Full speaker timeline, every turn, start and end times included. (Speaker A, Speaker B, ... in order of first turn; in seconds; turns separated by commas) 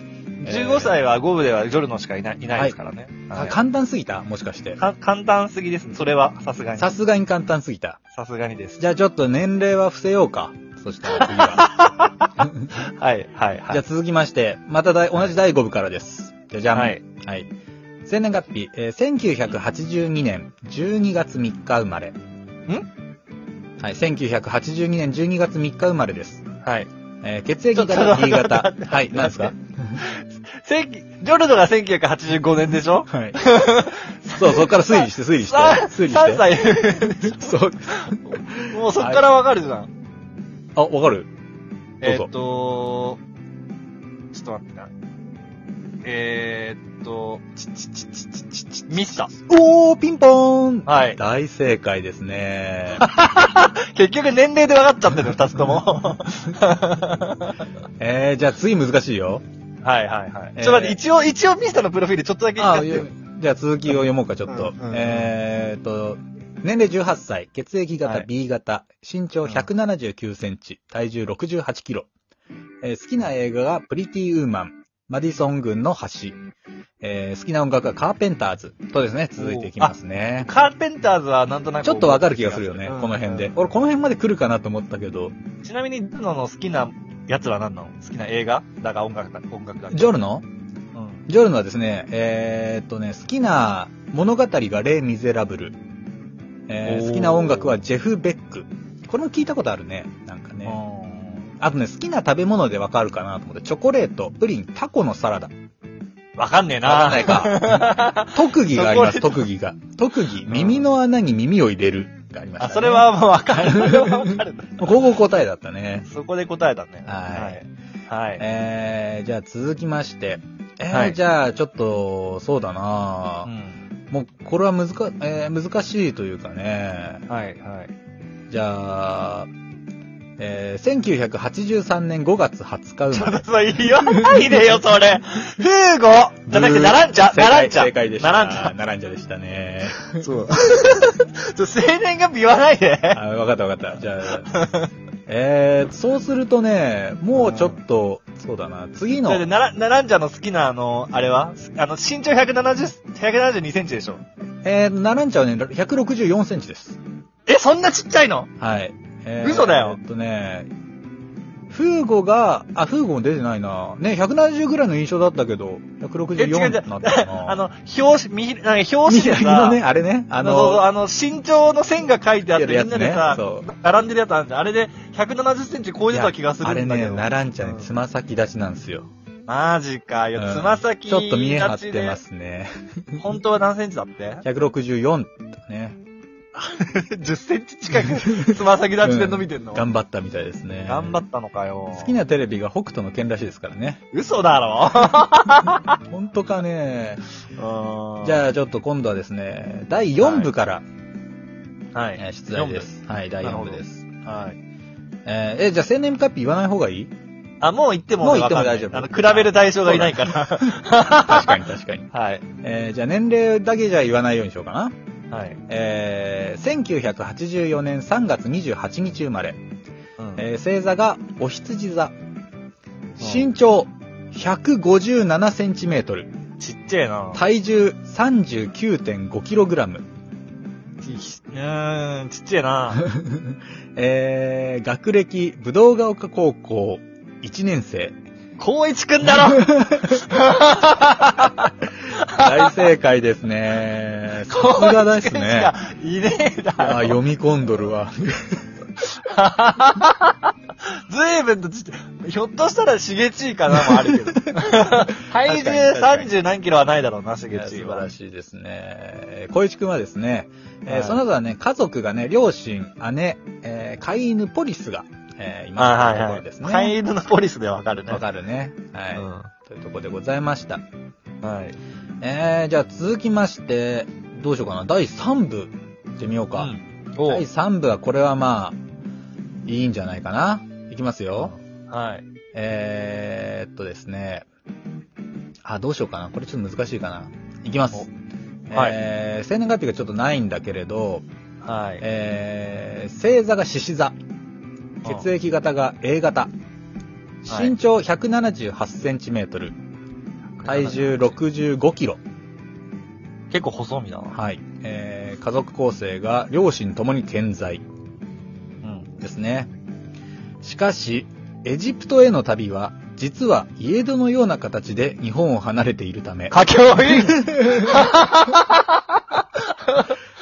Speaker A: 0.4-3.6, Speaker B: 0.4-1.0, Speaker B: 3.3-4.8, Speaker A: 4.8-6.9, Speaker B: 6.8-8.0, Speaker A: 8.1-8.8, Speaker B: 8.8-11.9, Speaker A: 11.1-13.8, Speaker B: 12.4-12.7, Speaker B: 13.7-17.5, Speaker A: 16.7-17.0, Speaker B: 18.0-22.1, Speaker B: 23.8-26.4, Speaker A: 26.6-26.9, Speaker B: 27.2-30.0, Speaker A: 27.7-39.9, Speaker B: 33.1-33.4, Speaker B: 34.3-36.5, Speaker B: 37.2-39.2, Speaker B: 40.8-41.3, Speaker A: 42.0-43.2, Speaker B: 42.0-42.3, Speaker A: 44.3-44.9, Speaker A: 46.0-47.7, Speaker B: 48.5-53.1, Speaker A: 48.9-49.3, Speaker A: 50.9-51.2, Speaker A: 53.0-57.6, Speaker B: 58.0-59.4, Speaker A: 59.8-63.1, Speaker B: 60.5-61.0, Speaker B: 62.6-72.1, Speaker A: 64.5-65.3, Speaker B: 72.8-76.4, Speaker B: 77.0-80.5, Speaker A: 79.4-79.9, Speaker A: 80.4-83.5, Speaker B: 81.8-85.3, Speaker A: 85.6-90.2, Speaker B: 89.9-90.5, Speaker A: 90.9-91.2, Speaker B: 91.3-95.8, Speaker B: 96.7-100.8, Speaker A: 96.8-97.8, Speaker A: 100.6-101.4, Speaker B: 101.6-105.5, Speaker A: 106.4-109.4, Speaker B: 106.8-116.0, Speaker A: 110.5-110.9, Speaker A: 112.6-115.0, Speaker A: 116.0-118.4, Speaker B: 117.0-117.6, Speaker B: 118.4-123.5, Speaker A: 120.9-121.2, Speaker A: 123.4-123.8, Speaker B: 124.1-127.2, Speaker A: 127.3-127.9, Speaker B: 128.5-129.5, Speaker B: 130.4-133.4, Speaker A: 133.1-138.7, Speaker B: 136.5-140.2, Speaker A: 140.1-143.2, Speaker B: 143.1-144.6, Speaker A: 144.4-144.9, Speaker B: 145.3-149.5, Speaker A: 147.3-147.8, Speaker A: 149.2-154.2, Speaker B: 154.6-157.0, Speaker A: 157.5-158.5, Speaker B: 158.6-160.7, Speaker A: 159.4-160.0, Speaker B: 161.7-167.6, Speaker A: 166.4-169.8, Speaker B: 169.1-170.8, Speaker A: 170.4-177.9, Speaker B: 172.5-173.7, Speaker B: 176.1-179.1, Speaker A: 179.5-182.2, Speaker B: 180.3-183.2, Speaker A: 183.2-184.4, Speaker B: 184.4-186.0, Speaker A: 186.5-189.8, Speaker B: 189.0-191.2, Speaker A: 190.8-192.1, Speaker B: 191.9-194.0, Speaker A: 194.1-196.0, Speaker B: 196.0-197.2, Speaker A: 197.6-198.4, Speaker B: 198.2-200.8, Speaker A: 200.2-200.5, Speaker A: 201.9-202.9, Speaker B: 202.2-204.5, Speaker A: 203.4-204.6, Speaker B: 205.2-207.1, Speaker A: 207.6-212.4, Speaker B: 208.2-214.9, Speaker A: 215.3-215.6, Speaker B: 215.7-219.6, Speaker B: 220.3-222.1, Speaker B: 223.2-226.3, Speaker A: 223.2-223.5, Speaker A: 226.6-227.4, Speaker B: 227.3-230.0, Speaker A: 231.0-233.0, Speaker B: 233.0-238.2, Speaker A: 238.6-242.8, Speaker B: 239.4-240.2, Speaker B: 242.2-245.7, Speaker A: 244.4-247.2, Speaker B: 246.8-248.7, Speaker A: 248.9-258.1, Speaker B: 254.7-256.3, Speaker B: 257.5-266.9, Speaker A: 260.9-261.2, Speaker A: 265.8-268.2, Speaker B: 268.1-270.8, Speaker A: 269.1-269.5, Speaker A: 271.4-271.8, Speaker B: 272.2-278.8, Speaker A: 276.6-277.4, Speaker B: 279.6-281.5, Speaker A: 281.4-282.2, Speaker B: 282.5-284.5, Speaker B: 285.6-288.1, Speaker B: 288.7-291.2, Speaker A: 291.6-292.0, Speaker B: 292.0-294.1, Speaker B: 295.0-296.5, Speaker B: 297.4-299.8, Speaker A: 297.5-297.8, Speaker A: 300.6-301.2, Speaker B: 300.6-302.2, Speaker A: 303.5-304.4, Speaker B: 304.3-307.8, Speaker A: 308.8-309.1, Speaker B: 309.2-309.7, Speaker B: 310.6-318.2, Speaker A: 316.5-320.2